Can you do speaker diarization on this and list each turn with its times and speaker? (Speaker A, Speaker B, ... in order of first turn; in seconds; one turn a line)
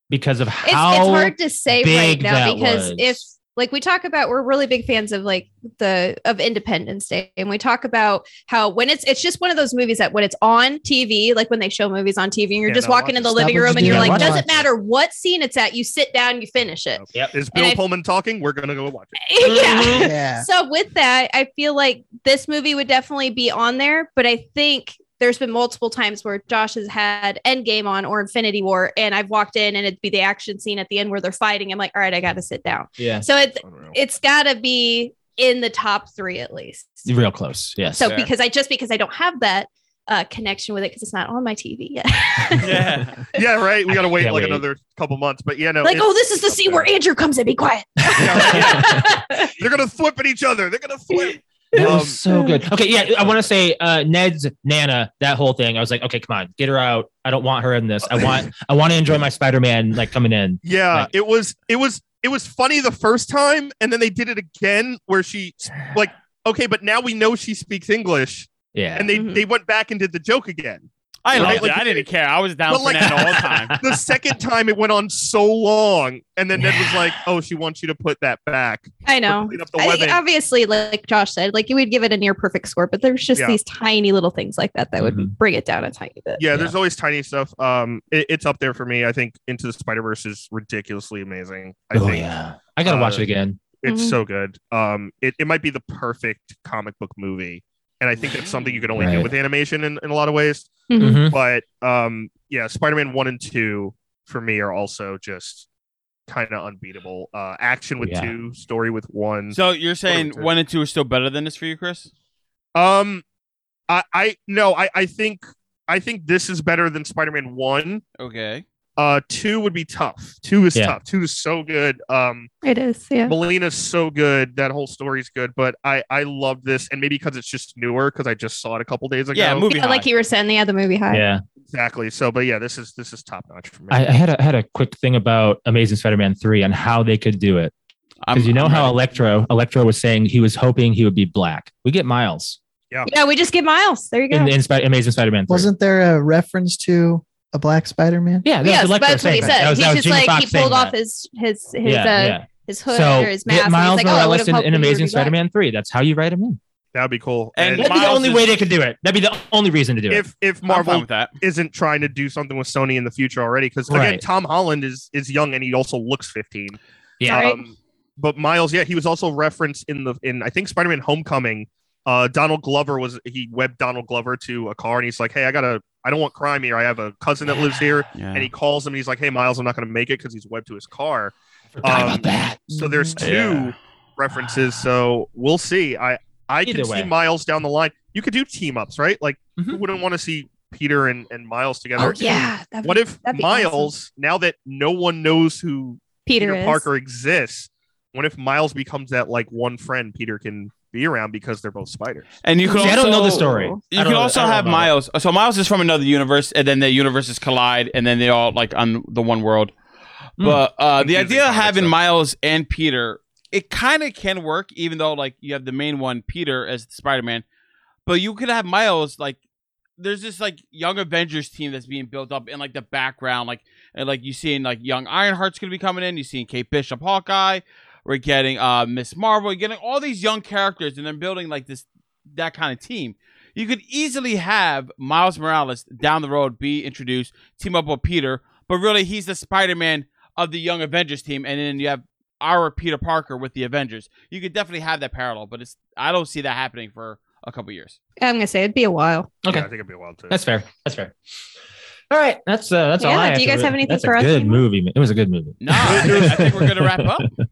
Speaker A: 0.1-3.2
Speaker B: 0.6-17.8
Speaker C: 12.7-14.5
Speaker D: 13.3-14.5
Speaker A: 13.7-14.4
Speaker C: 17.0-19.2
Speaker B: 19.2-37.0
Speaker A: 19.4-20.1
Speaker D: 19.9-20.5
Speaker A: 33.0-33.2
Speaker C: 33.6-34.0
Speaker A: 37.0-38.1
Speaker B: 37.9-42.8
Speaker E: 38.0-38.3
Speaker E: 42.6-43.2
Speaker C: 43.3-46.9
Speaker A: 43.9-44.6
Speaker B: 45.8-49.5
Speaker C: 48.1-52.2
Speaker A: 48.2-49.0
Speaker B: 51.7-52.6
Speaker A: 51.7-61.1
Speaker C: 60.6-72.1
Speaker A: 68.7-69.1
Speaker B: 69.1-69.4
Speaker E: 71.2-73.8
Speaker A: 71.3-71.6
Speaker C: 72.7-80.2
Speaker A: 73.2-74.0
Speaker A: 76.6-77.0
Speaker B: 79.0-86.4
Speaker A: 85.0-85.3
Speaker C: 86.4-92.3
Speaker A: 91.9-93.6
Speaker C: 92.8-93.2
Speaker C: 93.8-105.7
Speaker B: 93.8-94.2
Speaker E: 98.2-98.9
Speaker A: 99.0-99.3
Speaker B: 100.9-101.2
Speaker A: 101.0-101.4
Speaker C: 106.3-109.6
Speaker A: 108.0-108.3
Speaker E: 109.5-112.1
Speaker C: 110.1-110.5
Speaker C: 112.7-113.2
Speaker C: 113.9-118.0
Speaker E: 118.2-118.6
Speaker C: 119.0-122.5
Speaker B: 122.6-123.3
Speaker C: 123.2-129.7
Speaker E: 129.3-130.1
Speaker B: 129.7-131.2
Speaker A: 131.1-131.4
Speaker C: 131.7-134.1
Speaker A: 133.9-137.7
Speaker E: 138.2-138.9
Speaker A: 138.3-142.6
Speaker B: 143.1-144.5
Speaker A: 144.3-145.7
Speaker D: 145.5-148.5
Speaker A: 148.4-150.9
Speaker B: 148.6-155.3
Speaker D: 149.3-149.7
Speaker A: 151.8-156.6
Speaker C: 156.9-158.2
Speaker E: 157.6-158.5
Speaker A: 157.8-160.2
Speaker C: 160.1-202.3
Speaker E: 160.7-161.3
Speaker A: 163.9-164.2
Speaker A: 167.2-167.5
Speaker B: 167.3-167.6
Speaker E: 178.2-178.5
Speaker A: 181.8-183.7
Speaker A: 186.6-187.1
Speaker B: 192.0-193.9
Speaker B: 196.2-196.8
Speaker E: 202.4-209.7
Speaker B: 202.6-203.8
Speaker A: 202.7-204.9
Speaker E: 210.4-217.4
Speaker C: 211.0-211.9
Speaker E: 218.1-219.4
Speaker E: 220.0-248.0
Speaker B: 248.2-249.3
Speaker A: 249.4-249.7
Speaker C: 249.5-250.4
Speaker A: 250.3-251.1
Speaker A: 252.1-257.2
Speaker B: 253.0-254.6
Speaker E: 255.6-257.3
Speaker C: 255.8-256.4